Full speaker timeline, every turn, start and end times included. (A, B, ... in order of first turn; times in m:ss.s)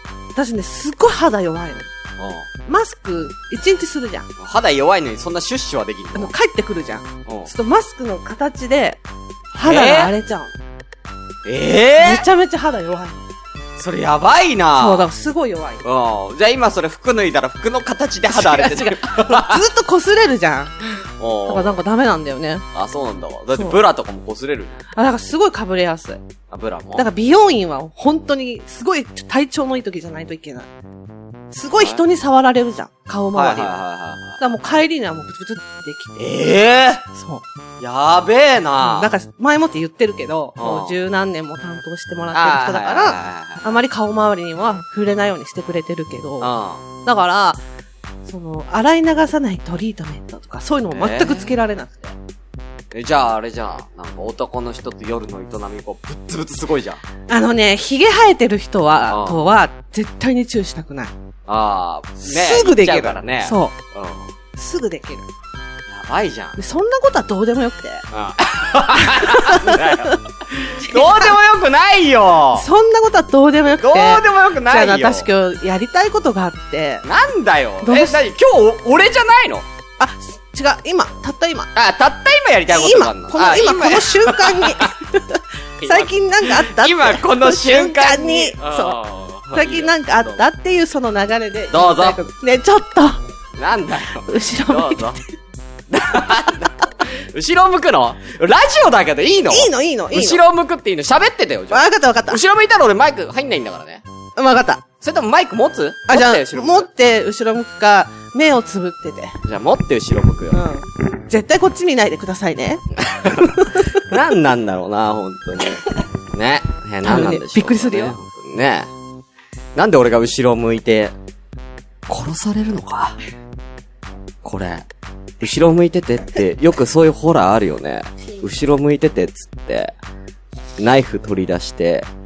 0:00.3-0:01.9 A
0:02.2-0:02.5 B
0:02.6-0:04.3 A
0:04.4-0:06.3 B
0:06.1-0:09.0 A
0:07.2-0:07.5 B
0:09.5-0:10.5 A
0:09.6-0:10.1 B
0:11.4-0:12.2 B
0:12.0-0:13.2 A
0:13.8-0:15.1 B
0:14.8-0:15.8 A
0:15.8-0:19.6 B
0:18.3-0:20.8 A
0:21.2-0:21.8 B
0:21.4-0:22.6 A
0:22.7-0:24.7 B
0:23.5-0:23.8 A
0:24.9-0:26.2 A
0:26.5-0:27.1 B
0:27.0-0:30.7 A
0:31.5-0:33.8 A
0:31.7-0:32.0 B
0:33.3-0:34.4 B
0:34.4-0:36.2 A
0:36.2-0:37.0 B
0:37.2-0:37.4 A
0:37.8-0:39.2 B
0:38.8-0:46.5 A
0:40.6-0:41.0 B
0:42.3-0:43.8 B
0:46.4-0:46.9 B
0:47.0-0:47.6 A
0:48.2-0:52.2 A
0:50.9-0:51.5 B
0:52.9-0:57.0 B
0:57.3-1:01.1 A
0:59.1-0:59.4 B
1:01.5-1:04.3 B
1:02.2-1:03.7 A
1:04.6-1:05.3 A
1:05.9-1:06.6 B
1:06.6-1:08.0 A
1:08.1-1:12.7 B
1:09.0-1:10.2 A
1:10.8-1:11.4 A
1:12.5-1:17.0 A
1:13.7-1:15.3 B
1:17.0-1:19.6 B
1:17.8-1:18.2 A
1:20.0-1:21.7 A
1:21.7-1:24.9 B
1:22.7-1:29.0 A
1:25.8-1:30.4 B
1:29.5-1:33.2 A
1:31.7-1:32.2 B
1:33.6-1:35.2 B
1:34.1-1:35.2 A
1:35.9-1:44.0 B
1:39.5-1:40.4 A
1:41.7-1:42.4 A
1:44.4-1:44.8 A
1:45.0-1:46.9 B
1:46.1-1:49.4 A
1:49.4-1:50.6 B
1:50.5-1:53.9 A
1:53.0-1:58.9 B
1:57.0-1:58.2 A
1:59.7-2:01.1 B
2:02.1-2:03.2 B
2:04.4-2:04.8 B
2:05.4-2:09.9 B
2:10.8-2:12.1 B